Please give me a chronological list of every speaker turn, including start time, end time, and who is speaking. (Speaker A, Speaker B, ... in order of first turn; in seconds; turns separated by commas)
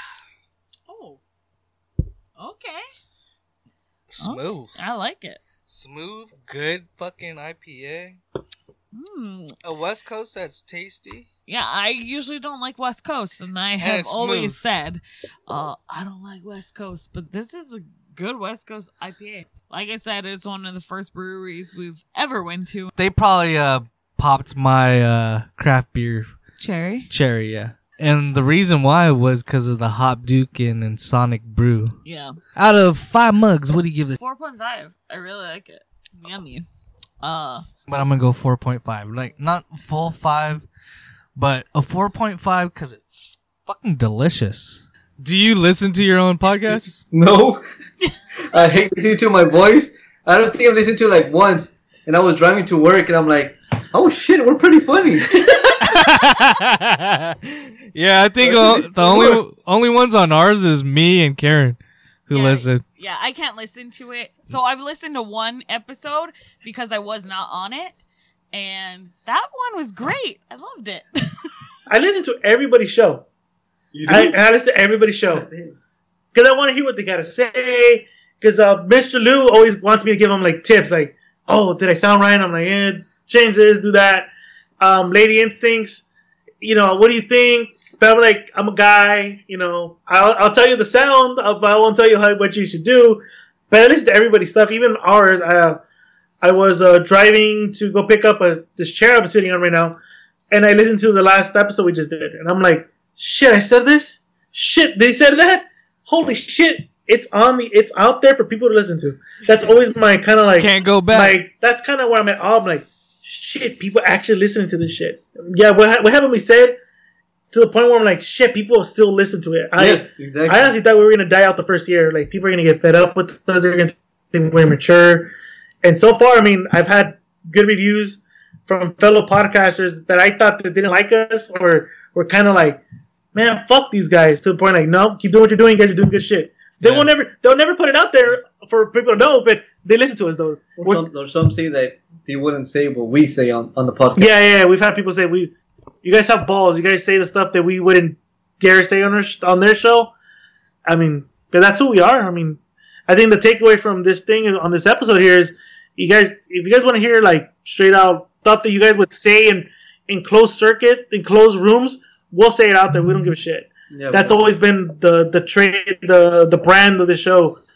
Speaker A: 0.9-1.2, Speaker A: 2.4-2.9, Speaker B: 4.1-4.8, Speaker A: 4.2-5.4, Speaker B: 5.7-8.2, Speaker A: 8.9-9.6, Speaker B: 9.6-11.3, Speaker A: 11.5-22.9, Speaker B: 13.8-14.6, Speaker B: 22.9-26.3, Speaker A: 26.6-27.1, Speaker B: 27.1-32.0, Speaker A: 32.0-32.4, Speaker B: 32.5-34.2, Speaker A: 34.2-36.7, Speaker A: 37.2-37.7, Speaker B: 37.9-40.6, Speaker B: 41.4-47.0, Speaker C: 47.1-47.6, Speaker C: 48.5-55.7, Speaker B: 55.8-62.8, Speaker C: 58.4-59.4, Speaker A: 62.3-68.0, Speaker A: 68.5-71.5, Speaker D: 71.9-73.2, Speaker C: 73.9-74.4, Speaker D: 74.1-75.5, Speaker C: 75.3-75.8, Speaker D: 76.3-84.3, Speaker D: 84.8-86.0, Speaker D: 86.6-95.8, Speaker D: 96.4-100.0, Speaker D: 100.5-116.8, Speaker B: 110.6-111.4, Speaker D: 117.5-125.3, Speaker C: 119.8-120.7, Speaker D: 125.8-132.8, Speaker D: 133.3-141.1, Speaker B: 136.8-137.1, Speaker C: 140.8-144.3, Speaker D: 144.2-150.1, Speaker D: 150.9-167.6, Speaker C: 163.9-164.4